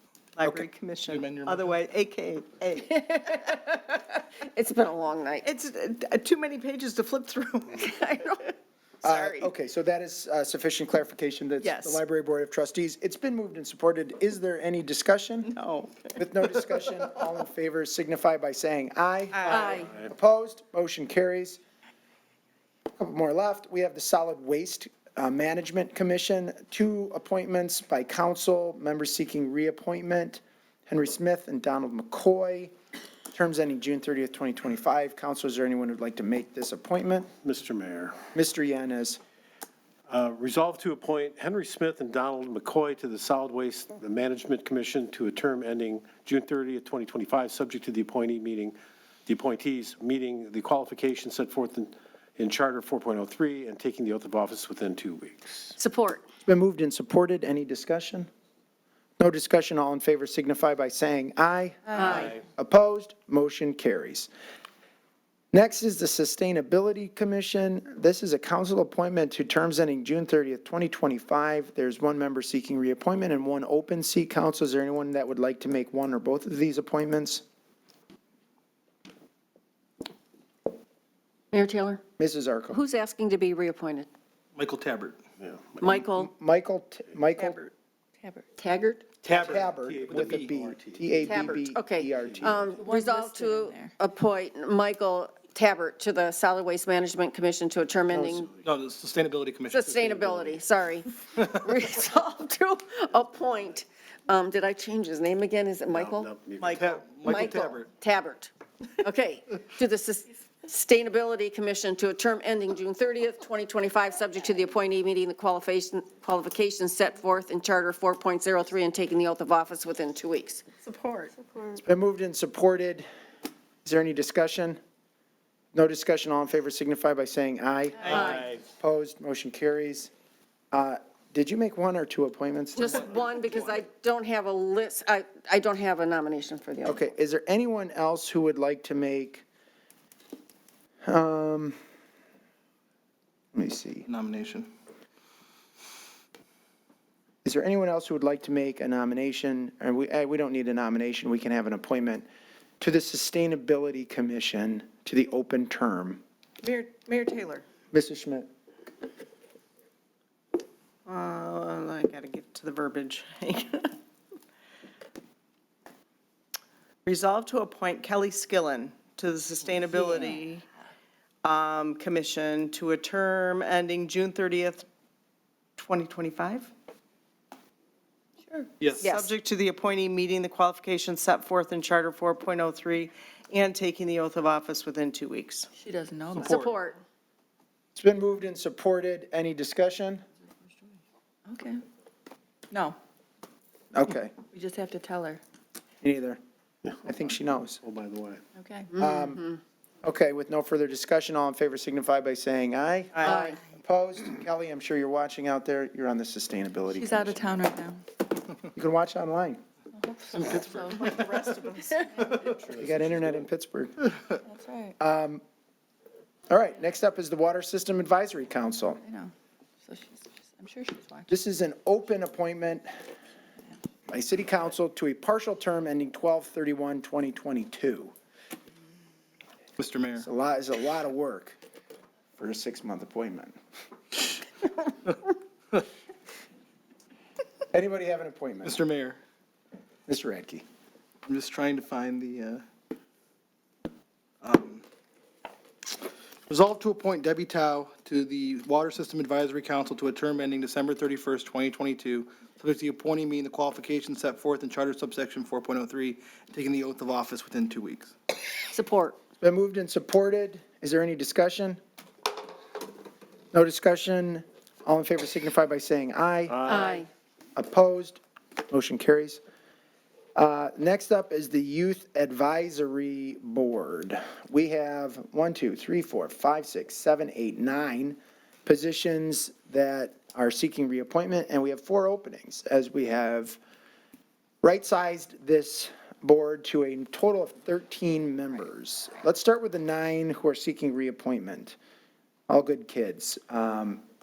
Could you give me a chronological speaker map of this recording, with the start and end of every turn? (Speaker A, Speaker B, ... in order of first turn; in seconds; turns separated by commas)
Speaker A: 0.4-3.9, Speaker B: 1.1-1.7, Speaker C: 4.4-5.5, Speaker A: 5.4-7.9, Speaker C: 7.8-8.5, Speaker A: 9.0-9.5, Speaker D: 9.0-15.5, Speaker A: 11.6-12.0, Speaker A: 15.4-16.4, Speaker D: 16.2-21.6, Speaker A: 19.3-19.8, Speaker C: 19.5-19.9, Speaker D: 23.0-32.7, Speaker D: 33.3-37.3, Speaker E: 37.4-38.2, Speaker D: 38.3-39.2, Speaker E: 40.1-48.8, Speaker E: 49.3-55.8, Speaker C: 55.8-56.3, Speaker D: 56.5-58.3, Speaker D: 59.2-64.3, Speaker C: 62.0-62.3, Speaker E: 62.1-62.4, Speaker D: 65.5-77.4, Speaker C: 81.5-82.0, Speaker D: 82.2-82.8, Speaker C: 82.7-84.1, Speaker B: 84.5-85.2, Speaker E: 85.4-85.9, Speaker C: 85.8-86.3, Speaker D: 86.0-87.7, Speaker F: 88.2-88.5, Speaker C: 88.6-89.1, Speaker E: 89.2-91.6, Speaker B: 89.3-90.5, Speaker D: 89.3-92.7, Speaker C: 91.2-98.5, Speaker E: 92.2-92.5, Speaker F: 92.8-94.0, Speaker D: 98.1-98.4, Speaker B: 98.6-100.4, Speaker C: 99.7-106.3, Speaker E: 105.9-106.8, Speaker A: 106.6-107.0, Speaker B: 106.7-107.9, Speaker C: 107.2-120.6, Speaker A: 120.8-121.8, Speaker D: 121.8-123.1, Speaker D: 123.8-124.8, Speaker D: 125.7-130.1, Speaker C: 128.1-128.4, Speaker E: 128.1-128.6, Speaker D: 130.7-133.1, Speaker C: 132.8-137.1, Speaker D: 136.8-139.4, Speaker D: 141.1-141.8, Speaker D: 143.5-144.1, Speaker B: 144.1-144.7, Speaker D: 147.4-152.3, Speaker D: 152.8-156.2, Speaker A: 156.6-157.6, Speaker D: 157.9-158.5, Speaker A: 161.1-163.9, Speaker A: 167.1-170.7, Speaker F: 169.9-170.4, Speaker A: 171.4-174.8, Speaker A: 175.8-176.7, Speaker B: 178.8-179.1, Speaker A: 179.0-185.7, Speaker C: 179.0-179.3, Speaker F: 185.8-186.6, Speaker B: 186.3-186.8, Speaker C: 186.4-187.0, Speaker D: 188.0-190.2, Speaker F: 191.5-191.8, Speaker F: 192.7-193.0, Speaker D: 193.9-194.3, Speaker F: 194.5-195.4, Speaker D: 196.0-196.4, Speaker D: 197.0-197.8, Speaker E: 197.8-198.4, Speaker F: 198.6-199.1, Speaker C: 198.9-199.6, Speaker D: 199.0-199.4, Speaker D: 200.0-207.7, Speaker C: 203.2-203.6, Speaker F: 206.9-208.0, Speaker D: 208.7-209.6, Speaker F: 209.9-211.2, Speaker B: 210.3-211.2, Speaker A: 210.9-212.1, Speaker B: 212.3-212.6, Speaker E: 212.5-213.5, Speaker D: 212.7-214.1, Speaker F: 214.4-215.0, Speaker D: 215.0-215.4, Speaker D: 216.5-219.0, Speaker F: 219.0-221.3, Speaker D: 221.3-222.9, Speaker D: 224.1-228.1, Speaker B: 229.8-230.3, Speaker D: 230.2-231.6, Speaker D: 232.4-233.6, Speaker D: 237.7-238.8, Speaker B: 238.6-239.2, Speaker D: 240.1-240.6, Speaker B: 241.2-242.6, Speaker B: 244.4-244.8, Speaker B: 246.5-258.1, Speaker C: 258.7-259.2, Speaker D: 259.4-261.8, Speaker D: 263.5-267.0, Speaker E: 266.5-267.0, Speaker C: 266.7-267.1, Speaker D: 267.6-269.4, Speaker D: 270.4-283.6, Speaker D: 284.6-291.8, Speaker D: 292.5-294.0